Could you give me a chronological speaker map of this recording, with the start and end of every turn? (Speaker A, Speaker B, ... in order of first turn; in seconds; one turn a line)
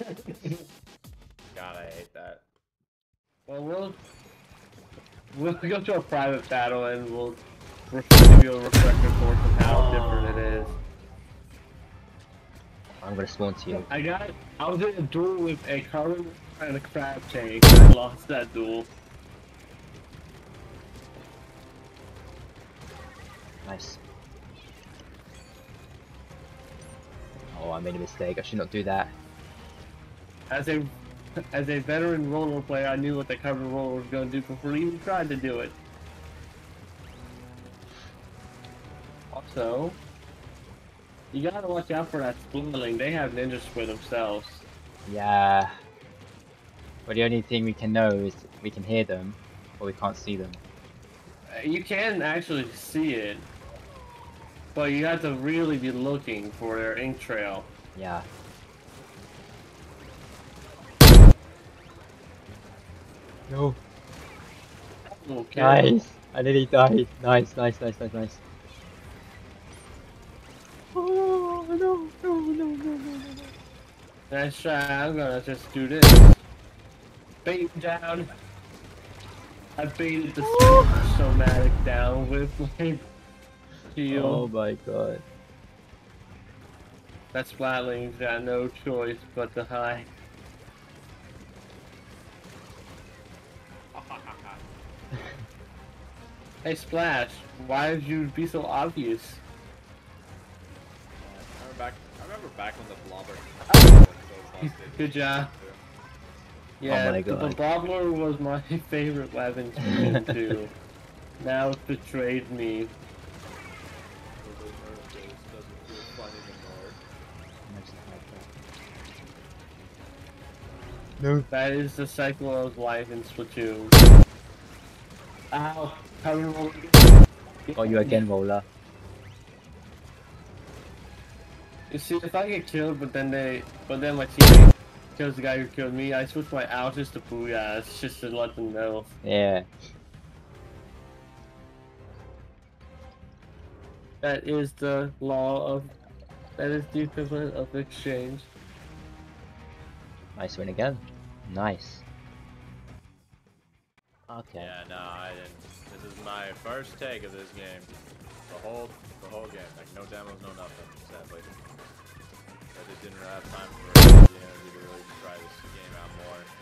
Speaker A: 0.1-0.6
Speaker B: 1.5-2.4
Speaker A: 3.5-4.0
Speaker A: 5.3-10.8
Speaker C: 13.0-13.9
Speaker A: 13.8-18.9
Speaker C: 23.6-24.0
Speaker C: 27.5-29.1
Speaker A: 30.5-30.9
Speaker A: 31.5-35.8
Speaker A: 39.3-40.0
Speaker A: 41.3-44.6
Speaker C: 45.0-45.8
Speaker C: 47.0-50.6
Speaker A: 51.5-53.5
Speaker A: 54.7-57.7
Speaker C: 58.0-58.3
Speaker C: 63.5-63.8
Speaker A: 65.1-65.9
Speaker C: 65.5-68.4
Speaker C: 70.9-73.5
Speaker A: 74.3-76.4
Speaker A: 77.4-78.3
Speaker A: 79.8-83.1
Speaker C: 80.4-81.0
Speaker A: 83.9-84.5
Speaker C: 84.1-85.2
Speaker A: 87.3-90.1
Speaker B: 93.9-94.6
Speaker A: 96.6-99.4
Speaker B: 101.2-105.8
Speaker A: 103.7-103.9
Speaker A: 104.6-105.5
Speaker A: 106.8-110.7
Speaker C: 106.9-107.6
Speaker A: 111.4-112.9
Speaker B: 114.4-117.0
Speaker C: 117.7-118.5
Speaker C: 121.2-121.5
Speaker A: 121.5-124.0
Speaker A: 125.5-127.1
Speaker A: 127.7-128.2
Speaker C: 127.8-128.7
Speaker A: 131.9-139.1
Speaker C: 139.2-139.7
Speaker A: 144.2-145.9
Speaker A: 146.6-148.5
Speaker C: 150.3-152.0
Speaker C: 154.3-154.7
Speaker B: 154.6-157.9
Speaker B: 158.5-161.5
Speaker B: 162.7-166.5